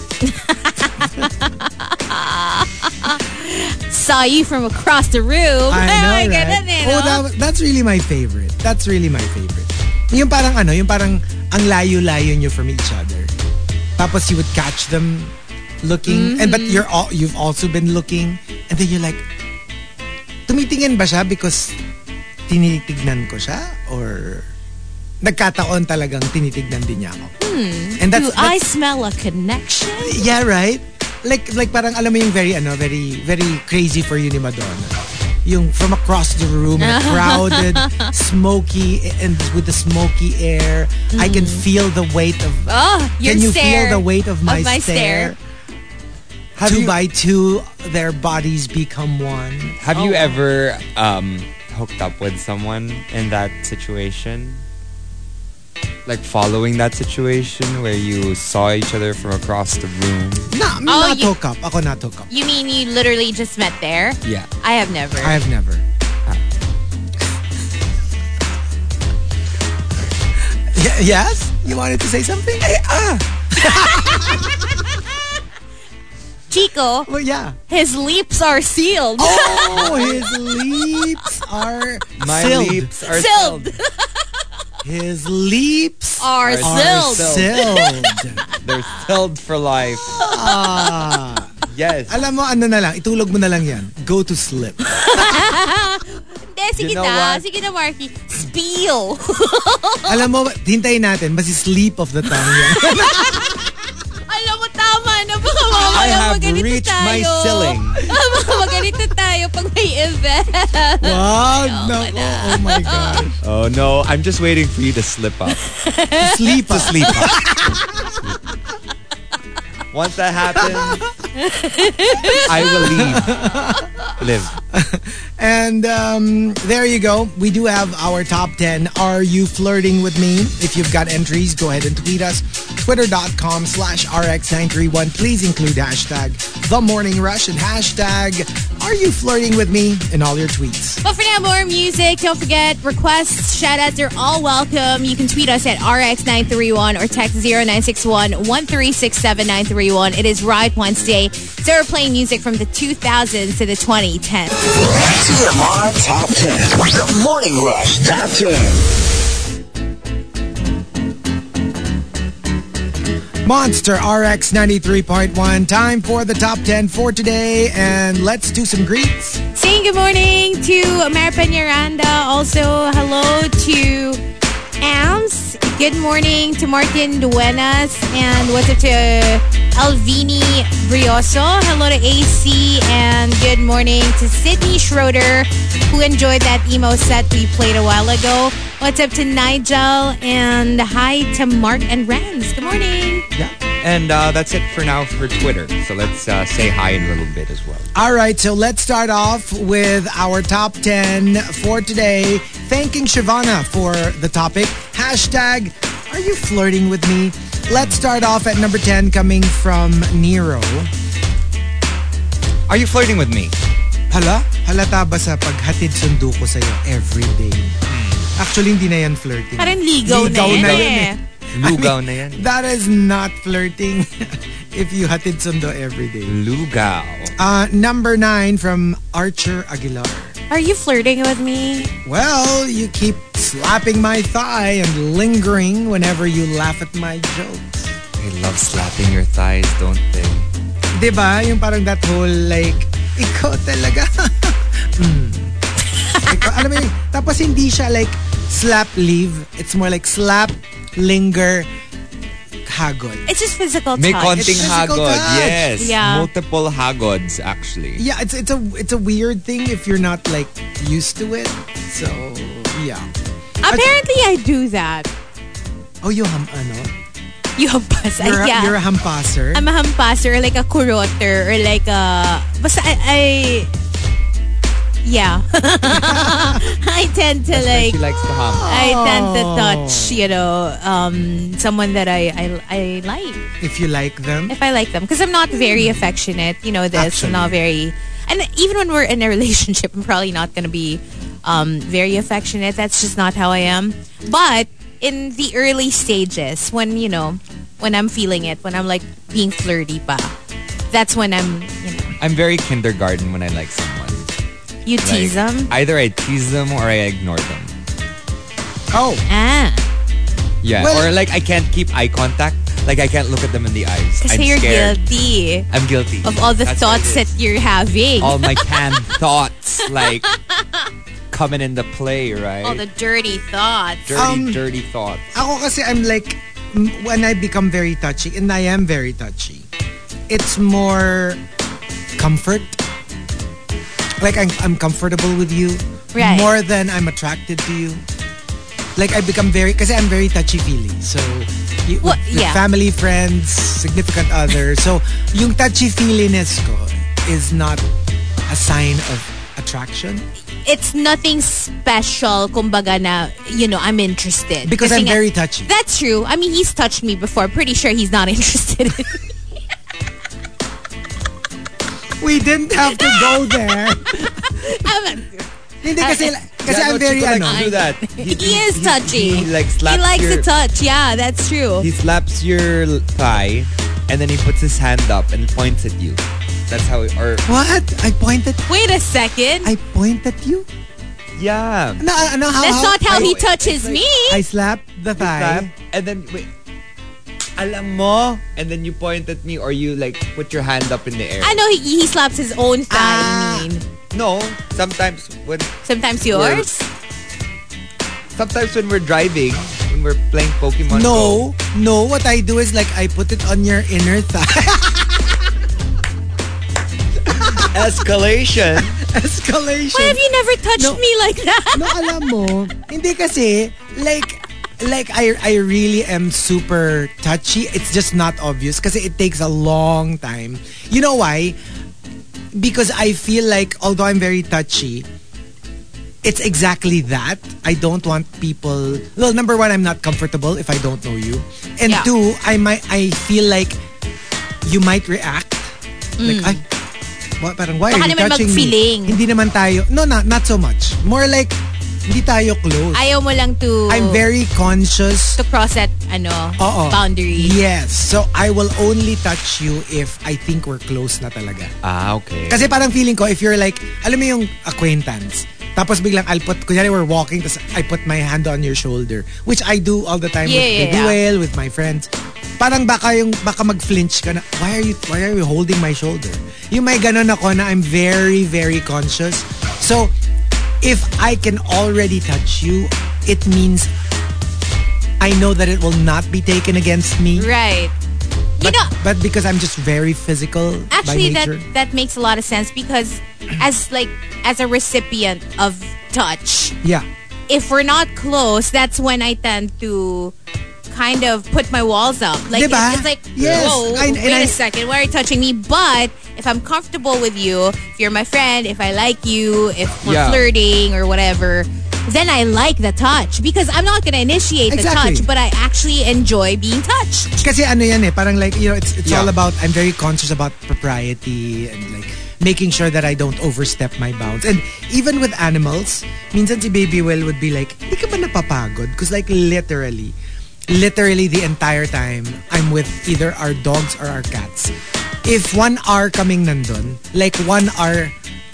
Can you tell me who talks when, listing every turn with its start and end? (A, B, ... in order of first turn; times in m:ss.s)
0:00.2-0:07.2 A
0:05.7-0:13.3 B
0:14.0-0:19.2 B
0:16.0-0:16.9 A
0:20.5-0:21.8 B
0:22.5-0:24.4 B
0:25.2-0:27.3 B
0:27.4-0:30.3 A
0:28.0-0:28.6 B
0:30.0-0:45.4 B
0:36.8-0:38.1 A
0:41.1-0:41.7 A
0:42.7-0:45.3 A
0:46.6-0:46.9 C
0:46.6-0:49.8 B
0:49.8-0:54.6 C
0:49.9-0:50.4 A
0:56.0-1:00.5 C
1:00.5-1:02.3 B
1:00.9-1:01.3 A
1:02.3-1:05.4 A
1:05.2-1:05.8 B
1:10.7-1:12.8 B
1:12.6-1:13.2 C
1:13.5-1:14.8 B
1:16.5-1:17.1 A
1:17.1-1:17.6 B
1:17.7-1:21.0 A
1:19.2-1:22.9 B
1:22.2-1:23.8 C
1:23.0-1:24.2 A
1:24.8-1:28.4 B
1:26.2-1:28.2 A
1:26.4-1:27.8 C
1:28.6-1:30.3 C
1:30.1-1:31.2 A
1:30.2-1:31.5 B
1:31.7-1:32.2 C
1:32.1-1:35.4 B
1:34.9-1:40.3 A
1:36.8-1:37.4 C
1:40.1-1:43.7 B
1:42.4-1:43.5 A
1:44.3-1:53.2 A
1:45.7-1:46.2 B
1:45.9-1:48.1 C
1:51.0-1:53.4 B
1:53.4-1:55.6 C
1:55.7-1:57.1 A
1:56.2-1:58.2 B
1:56.7-1:57.4 C
1:59.9-2:01.1 C
2:00.5-2:01.1 B
2:01.3-2:02.9 A
2:02.3-2:03.3 C
2:02.7-2:03.9 B
2:04.1-2:04.6 C
2:04.7-2:21.0 B
2:21.0-2:34.6 A
2:34.9-2:38.8 D
2:43.4-2:49.4 B
2:49.5-2:54.2 A
2:54.8-3:13.2 A
3:13.6-3:17.9 C
3:17.9-3:30.9 B
3:27.7-3:28.0 C
3:32.7-3:33.5 C
3:34.1-3:37.8 B
3:37.9-3:38.3 C
3:38.4-3:46.4 B
3:39.6-3:41.2 A
3:40.2-3:42.5 C
3:46.3-3:47.3 C
3:47.4-3:50.4 B
3:50.5-3:51.9 A
3:52.0-3:57.9 B
3:58.2-4:00.5 C
4:00.9-4:05.5 B
4:06.0-4:06.7 A
4:06.2-4:11.7 B
4:12.6-4:13.2 B
4:13.3-4:14.7 A
4:14.0-4:18.0 C
4:14.4-4:15.7 B
4:15.8-4:16.3 A
4:18.0-4:23.1 B
4:23.6-4:25.1 A
4:23.7-4:23.9 B
4:26.0-4:26.9 B
4:27.6-4:28.8 A
4:28.2-4:29.7 B
4:29.5-4:33.7 A
4:35.0-4:38.0 A
4:35.9-4:36.6 B
4:37.5-4:38.7 C
4:38.4-4:40.2 B
4:38.6-4:43.4 A
4:43.6-4:44.5 B
4:44.5-5:00.3 A
4:45.5-4:46.0 B
4:46.9-4:47.6 B
5:00.9-5:02.1 A
5:02.2-5:04.3 C
5:04.8-5:05.7 A
5:05.0-5:07.7 C
5:08.9-5:09.2 B
5:09.3-5:09.8 A
5:10.6-5:15.0 C
5:10.8-5:11.1 B
5:14.2-5:15.7 A
5:15.7-5:17.3 C
5:16.2-5:19.0 A
5:18.2-5:20.3 C
5:19.8-5:20.8 A
5:21.3-5:22.8 C
5:22.6-5:24.1 A
5:24.1-5:25.3 C
5:24.1-5:24.6 B
5:25.3-5:29.7 B
5:30.3-5:31.4 B
5:32.2-5:32.8 B
5:34.2-5:38.0 B
5:36.1-5:36.6 A
5:39.0-5:47.8 B
5:42.0-5:42.6 A
5:48.5-5:50.2 B
5:50.6-5:59.2 A
5:54.6-5:55.7 B
6:02.2-6:04.3 B
6:02.9-6:06.3 A
6:05.8-6:07.7 B
6:06.6-6:10.4 C
6:07.4-6:11.9 A
6:11.8-6:17.5 C
6:17.4-6:18.7 B
6:18.7-6:19.7 A
6:19.6-6:20.7 B
6:21.4-6:22.0 C
6:22.0-6:23.3 B
6:22.6-6:24.4 A
6:23.0-6:24.0 C
6:24.3-6:25.7 B
6:25.2-6:26.5 C
6:27.6-6:31.6 C
6:31.4-6:33.8 A
6:32.9-6:33.7 B
6:34.1-6:35.8 C
6:35.8-6:36.8 A
6:36.3-6:36.7 C
6:38.4-6:41.4 C
6:40.9-6:45.4 B
6:47.3-6:47.8 B
6:47.5-6:49.0 C
6:48.8-6:50.2 B
6:49.9-6:52.1 A
6:50.8-6:51.0 B
6:51.7-7:01.6 B
7:02.5-7:05.1 B
7:06.2-7:13.8 B
7:14.6-7:16.6 B
7:16.2-7:16.6 A
7:17.4-7:23.1 B
7:17.9-7:19.2 A
7:22.9-7:24.2 A
7:23.9-7:25.4 B
7:25.4-7:27.6 A
7:26.6-7:31.7 B
7:31.8-7:32.7 C
7:32.5-7:50.1 B
7:40.4-7:41.2 A
7:50.8-7:53.9 B
7:55.2-7:57.5 B
7:57.4-7:57.9 A
7:58.6-7:58.9 A
7:58.6-8:01.6 B
8:00.9-8:06.7 A
8:07.5-8:10.3 A
8:10.9-8:27.4 A
8:12.5-8:14.6 B
8:13.4-8:14.0 C
8:20.0-8:20.4 C
8:24.7-8:25.3 B
8:27.4-8:40.1 B
8:29.0-8:29.3 C
8:40.7-8:48.1 B